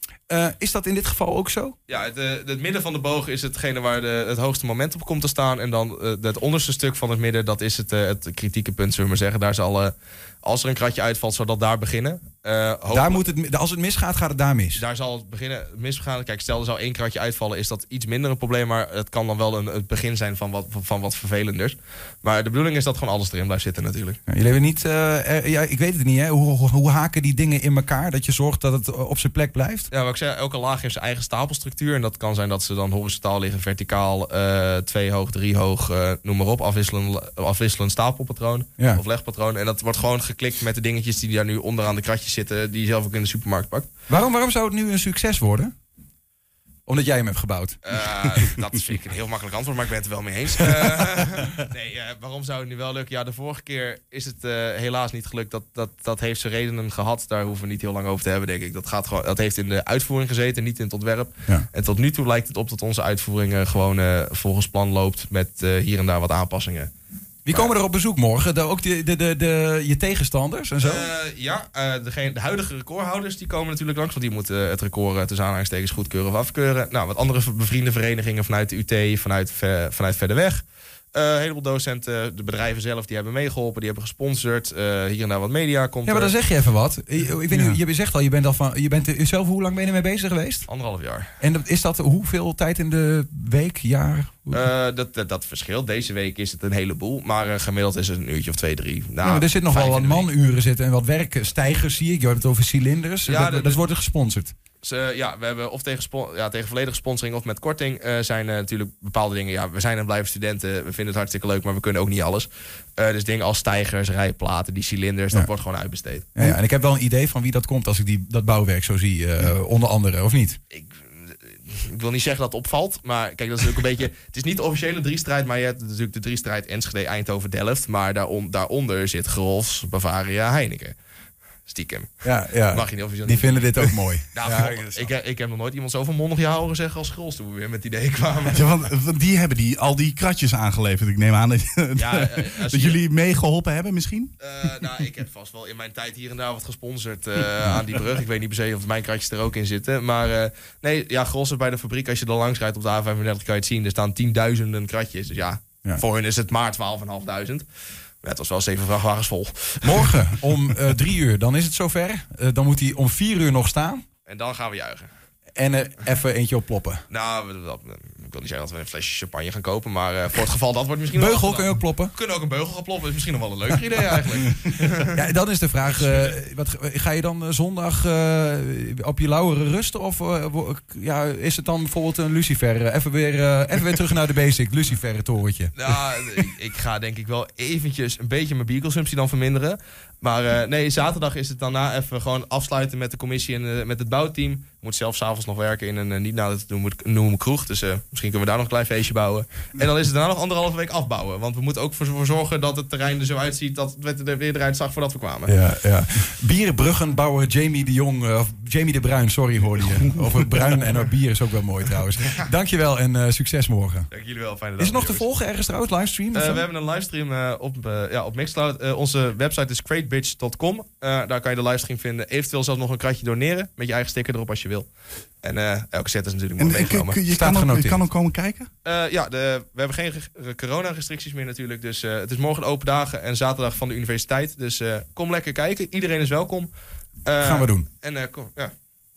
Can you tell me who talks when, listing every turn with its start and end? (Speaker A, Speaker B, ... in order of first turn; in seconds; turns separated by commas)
Speaker A: 0.3-1.8, Speaker B: 1.9-9.9, Speaker B: 10.4-13.2, Speaker A: 12.9-14.8, Speaker B: 14.8-24.2, Speaker A: 24.3-29.9, Speaker B: 29.9-43.9, Speaker A: 44.1-45.7, Speaker A: 46.9-47.8, Speaker B: 47.8-66.9, Speaker A: 67.5-71.1, Speaker B: 70.8-86.3, Speaker A: 86.1-90.7, Speaker B: 90.7-91.3, Speaker A: 91.4-94.7, Speaker B: 94.5-100.3, Speaker A: 99.2-104.5, Speaker B: 103.2-103.8, Speaker B: 104.8-116.4, Speaker A: 116.4-120.6, Speaker B: 120.7-130.9, Speaker B: 131.7-138.7, Speaker A: 132.2-135.1, Speaker C: 138.5-144.3, Speaker B: 142.0-143.0, Speaker B: 144.4-157.7, Speaker B: 158.2-160.2, Speaker A: 159.8-164.1, Speaker B: 164.3-165.1, Speaker A: 165.6-167.0, Speaker B: 167.1-175.2, Speaker A: 171.2-172.1, Speaker A: 175.1-185.9, Speaker B: 175.9-176.3, Speaker B: 185.8-205.5, Speaker A: 205.5-214.1, Speaker B: 214.1-215.3, Speaker A: 214.8-216.7, Speaker B: 216.3-224.9, Speaker B: 225.4-227.2, Speaker C: 226.6-228.7, Speaker A: 227.3-228.0, Speaker B: 228.8-236.7, Speaker B: 237.2-238.7, Speaker A: 237.4-237.9